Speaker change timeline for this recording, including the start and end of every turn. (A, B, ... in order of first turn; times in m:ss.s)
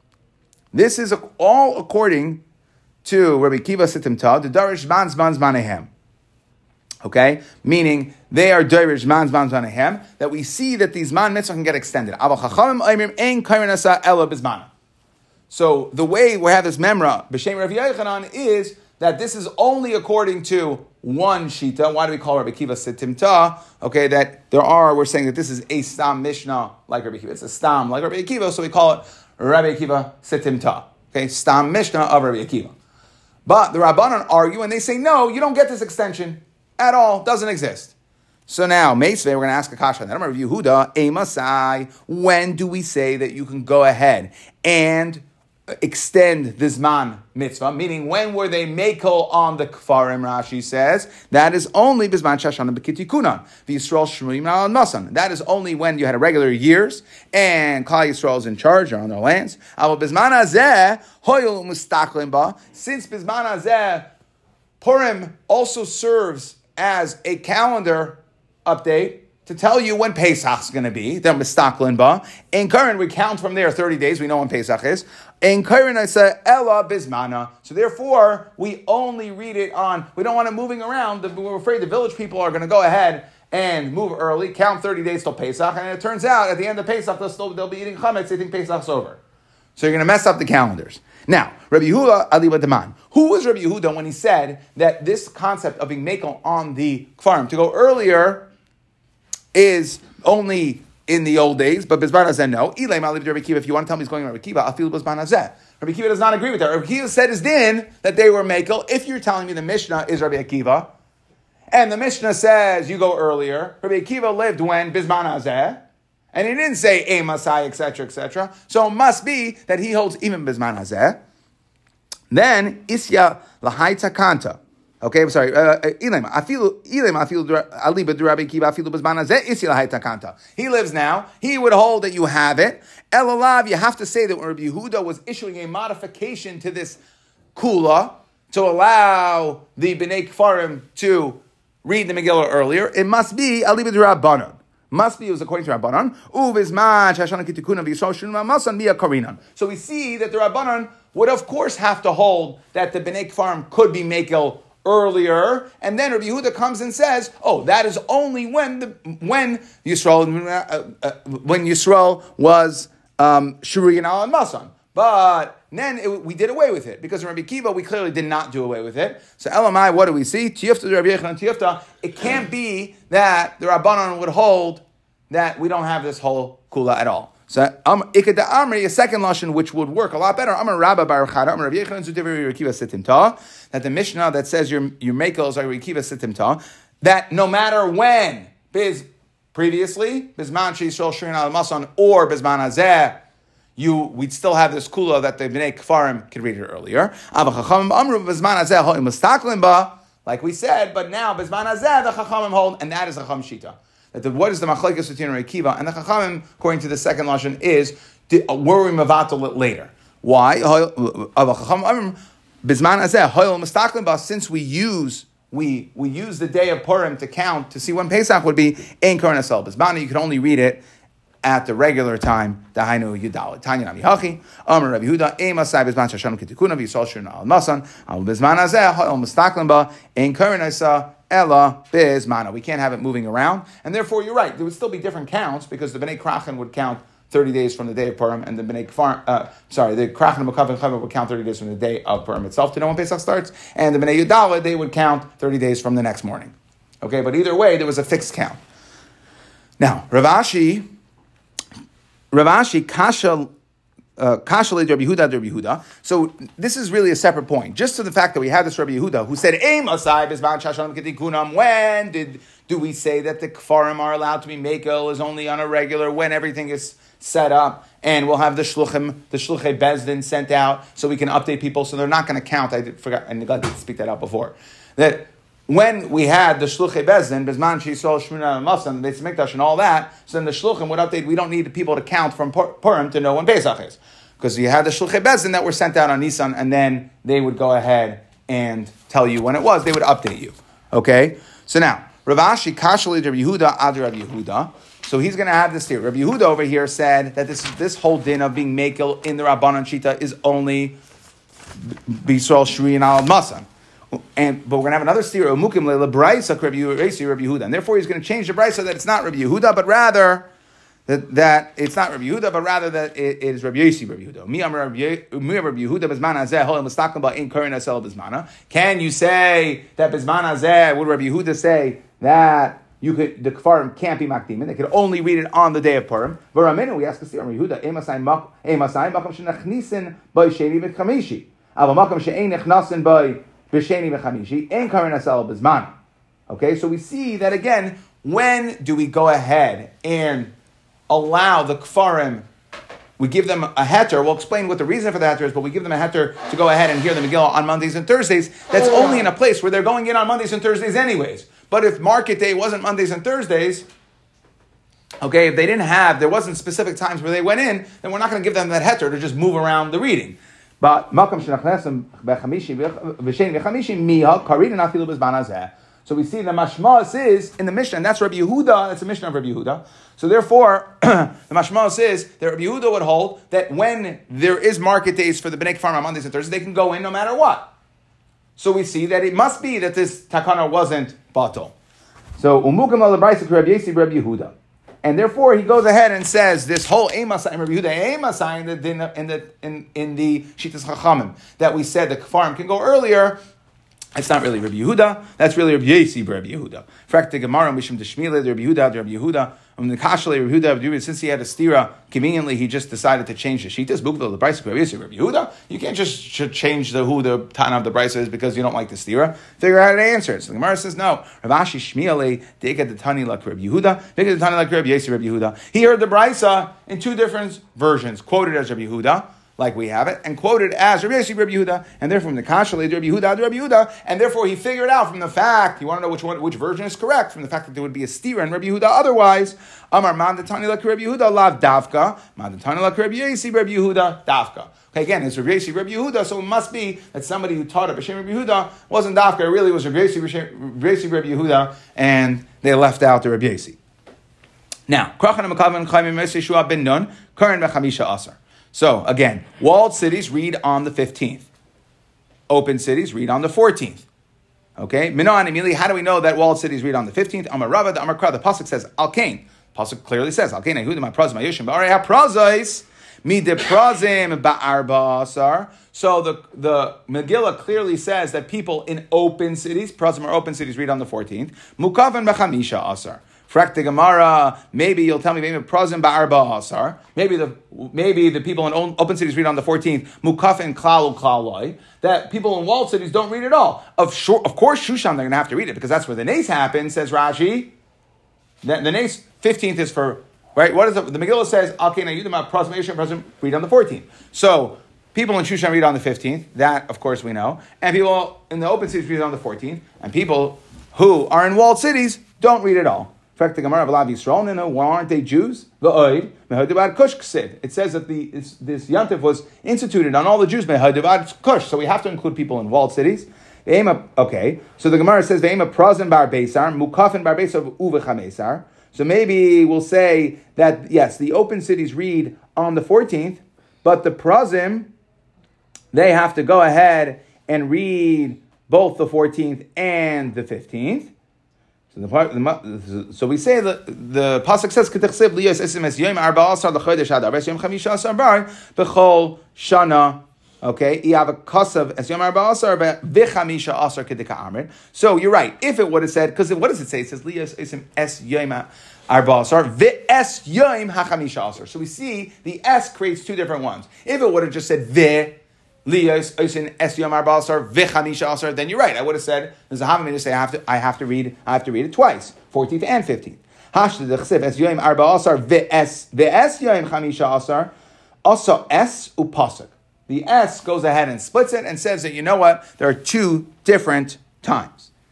0:00.7-0:02.4 A
0:03.0-0:05.9 A
0:07.0-0:14.7 A
0:15.5-0:32.8 A
0:33.5-0:37.9 A
0:38.5-1:04.1 A
1:04.8-1:29.2 A
1:29.8-1:38.5 A
1:39.5-1:50.9 A
1:51.7-2:01.2 A
2:02.3-2:17.0 A
2:17.6-3:13.2 A
3:13.8-3:40.8 A
3:41.4-4:08.6 A
4:09.8-4:10.9 A
4:12.3-4:13.5 A
4:14.2-5:01.0 A
5:01.8-5:10.5 A
5:11.1-5:35.9 A
5:36.5-5:40.5 A
5:41.1-5:42.4 A
5:43.2-5:53.9 A
5:55.2-6:17.7 A
6:18.6-6:21.7 A
6:22.4-6:33.4 A
6:34.1-7:23.8 A
7:24.9-7:31.5 A
7:32.5-7:34.0 A
7:34.8-8:07.7 A
8:08.6-8:44.9 A
8:45.9-8:51.1 A
8:51.9-9:27.7 A
9:28.2-9:34.9 A